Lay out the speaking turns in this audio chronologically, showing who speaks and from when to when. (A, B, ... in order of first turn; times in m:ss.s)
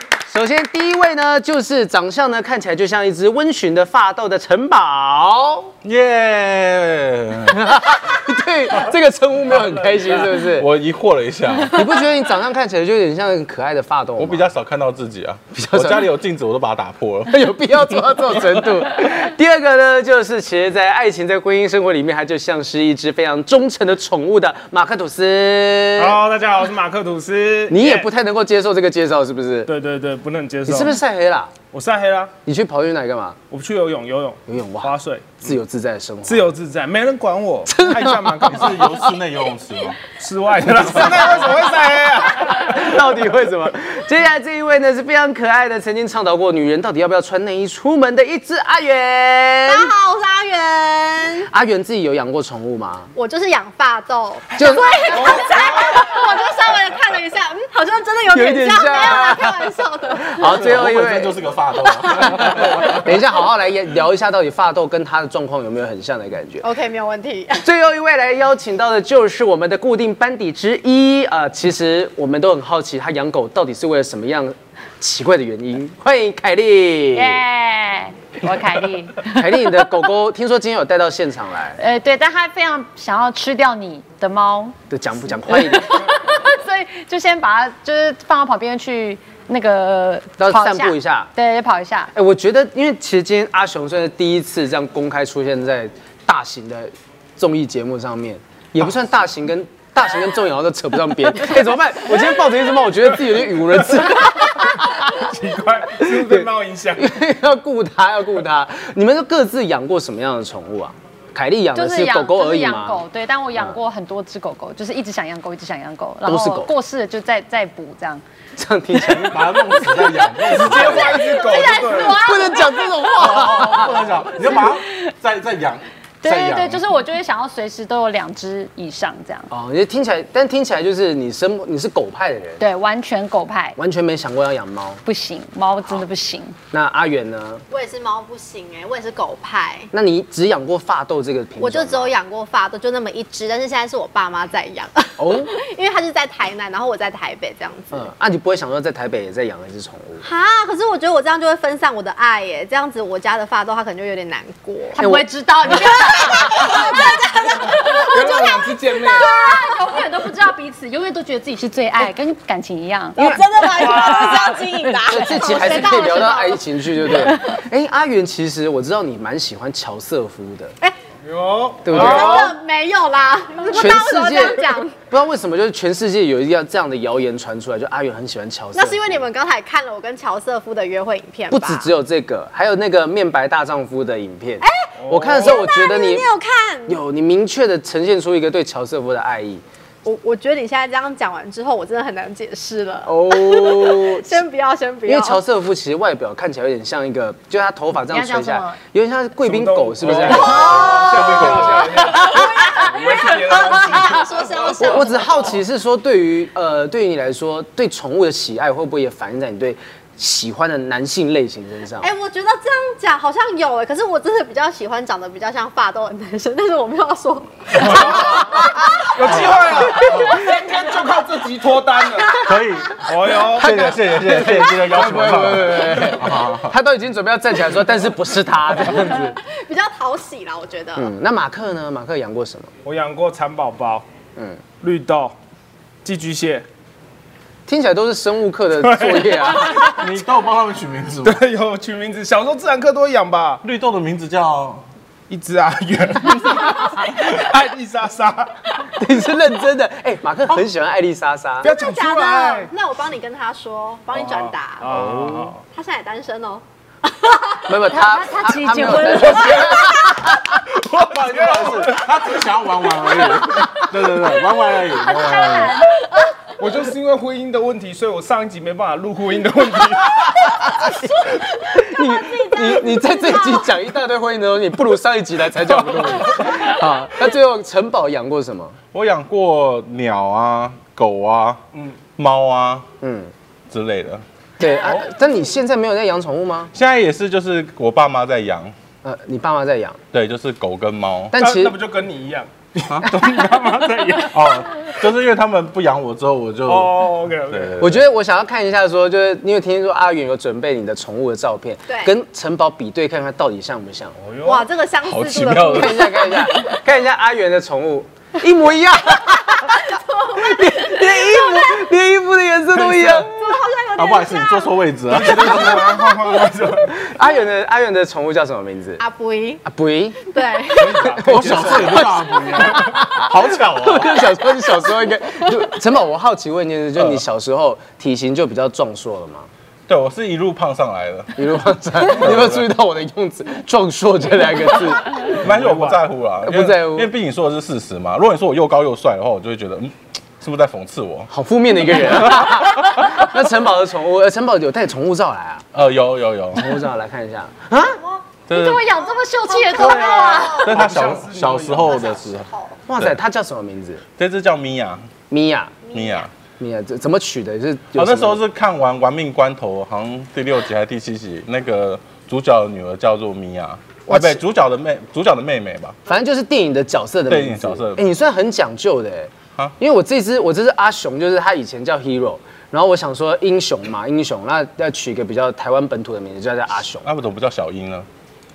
0:00.2-0:05.7 A
0:05.8-0:07.9 B
0:07.5-0:10.7 A
0:10.3-0:11.8 B
0:11.7-0:14.5 A
0:14.2-0:17.7 B
0:15.5-0:16.1 A
0:17.3-0:26.2 A
0:26.0-0:28.1 C
0:27.7-0:29.7 A
0:29.7-0:31.0 C
0:30.7-0:31.5 A
0:31.7-0:32.4 C
0:32.4-0:33.4 A
0:33.5-0:35.5 C
0:34.5-0:36.5 A
0:36.3-0:38.9 C
0:37.7-0:38.8 A
0:38.5-0:40.0 B
0:40.2-0:43.0 C
0:40.9-0:41.5 A
0:42.4-0:49.9 A
0:49.7-0:51.5 D
0:51.5-0:53.1 A
0:53.2-1:00.6 D
0:54.6-0:55.5 A
0:55.1-0:56.0 C
0:58.3-1:01.4 A
1:00.4-1:03.1 B
1:02.1-1:06.7 A
1:06.6-1:07.7 D
1:07.6-1:17.4 A
1:17.1-1:20.0 E
1:19.2-1:21.8 A
1:21.8-1:24.8 E
1:24.9-1:26.1 A
1:25.5-1:32.1 E
1:30.4-1:31.3 A
1:32.1-1:45.3 A
1:44.4-1:47.1 C
1:46.0-1:53.0 A
1:51.7-1:58.2 E
1:56.3-1:56.7 A
1:58.6-1:59.6 A
1:59.0-2:01.3 B
2:00.5-2:02.3 C
2:00.8-2:03.7 E
2:01.8-2:04.0 A
2:03.2-2:06.8 B
2:04.4-2:04.8 E
2:06.2-2:09.5 E
2:09.5-2:12.6 A
2:12.6-2:13.8 E
2:13.8-2:15.0 A
2:15.1-2:16.6 E
2:16.7-2:17.6 A
2:17.7-2:19.9 D
2:19.9-2:22.1 A
2:21.6-2:28.1 D
2:25.2-2:25.5 A
2:27.9-2:30.2 A
2:30.2-2:35.0 D
2:34.9-2:37.2 E
2:35.0-2:35.7 A
2:35.7-2:40.0 D
2:38.0-2:39.3 C
2:39.1-2:45.3 E
2:43.2-2:47.5 D
2:43.2-2:43.4 A
2:43.8-2:44.5 C
2:45.1-2:50.8 A
2:47.1-2:47.4 E
2:51.2-2:52.5 C
2:51.8-2:52.5 A
2:51.9-2:55.0 D
2:53.7-2:59.2 A
2:58.8-3:01.9 D
3:01.5-3:06.3 A
3:04.6-3:07.0 D
3:05.0-3:05.6 C
3:06.9-3:09.6 A
3:10.0-3:15.4 D
3:13.1-3:14.4 A
3:15.1-3:22.1 A
3:18.1-3:18.8 E
3:19.4-3:25.0 C
3:20.4-3:21.6 B
3:20.5-3:25.6 D
3:24.8-3:32.1 A
3:32.0-3:39.5 D
3:37.8-3:42.4 C
3:39.4-3:40.3 A
3:42.3-3:46.8 B
3:43.0-3:43.8 C
3:43.6-3:49.4 A
3:49.0-3:51.1 D
3:51.0-3:52.7 A
3:52.8-3:54.1 C
3:54.8-3:55.4 C
3:56.0-3:56.7 C
3:57.7-4:00.0 A
3:58.8-3:59.8 C
3:59.6-4:01.4 B
4:01.2-4:03.6 C
4:03.6-4:04.8 B
4:05.3-4:08.9 C
4:09.0-4:11.7 A
4:11.6-4:12.7 C
4:11.6-4:15.0 D
4:14.2-4:15.6 C
4:14.9-4:15.6 A
4:15.7-4:16.6 D
4:17.2-4:17.6 D
4:17.6-4:20.6 A
4:17.9-4:19.9 E
4:19.5-4:20.2 D
4:20.8-4:22.1 C
4:20.9-4:25.8 B
4:24.9-4:26.2 E
4:26.6-4:30.5 C
4:30.2-4:38.8 A
4:31.4-4:33.6 D
4:35.8-4:36.6 C
4:38.9-4:41.6 B
4:42.2-4:42.9 B
4:43.0-4:43.3 A
4:43.7-4:44.2 B
4:44.6-4:46.7 A
4:46.7-4:48.7 B
4:49.0-4:50.0 A
4:50.1-4:51.3 B
4:51.3-4:51.8 A
4:51.4-4:54.7 C
4:52.9-4:53.1 B
4:54.3-4:58.0 B
4:56.7-4:57.8 C
4:57.8-5:04.2 A
5:04.2-5:04.7 C
5:04.4-5:06.6 D
5:05.0-5:06.1 B
5:05.7-5:13.3 A
5:09.9-5:11.6 D
5:13.2-5:14.9 D
5:14.0-5:16.1 B
5:15.1-5:17.0 C
5:16.8-5:19.0 A
5:19.0-5:19.6 D
5:19.6-5:20.2 A
5:20.2-5:21.2 D
5:20.7-5:22.8 C
5:21.1-5:22.0 A
5:21.2-5:24.3 B
5:22.6-5:29.5 A
5:27.0-5:27.2 B
5:29.9-5:32.7 B
5:31.4-5:35.4 A
5:35.3-5:41.3 B
5:35.4-5:36.0 C
5:36.4-5:37.1 A
5:41.3-5:45.6 A
5:42.0-5:42.7 B
5:45.7-5:46.8 B
5:46.6-5:48.0 A
5:48.0-5:48.2 D
5:48.5-5:48.8 B
5:48.5-5:50.7 E
5:49.5-5:50.9 D
5:49.7-5:52.0 C
5:50.6-5:53.2 B
5:51.7-5:52.8 D
5:52.9-5:54.0 A
5:54.2-5:55.1 B
5:55.3-5:55.8 A
5:55.9-5:56.3 D
5:55.9-5:56.3 B
5:56.6-5:58.4 A
5:57.9-6:06.0 B
6:04.1-6:04.3 A
6:06.1-6:17.1 A
6:07.3-6:08.0 B
6:17.0-6:18.1 B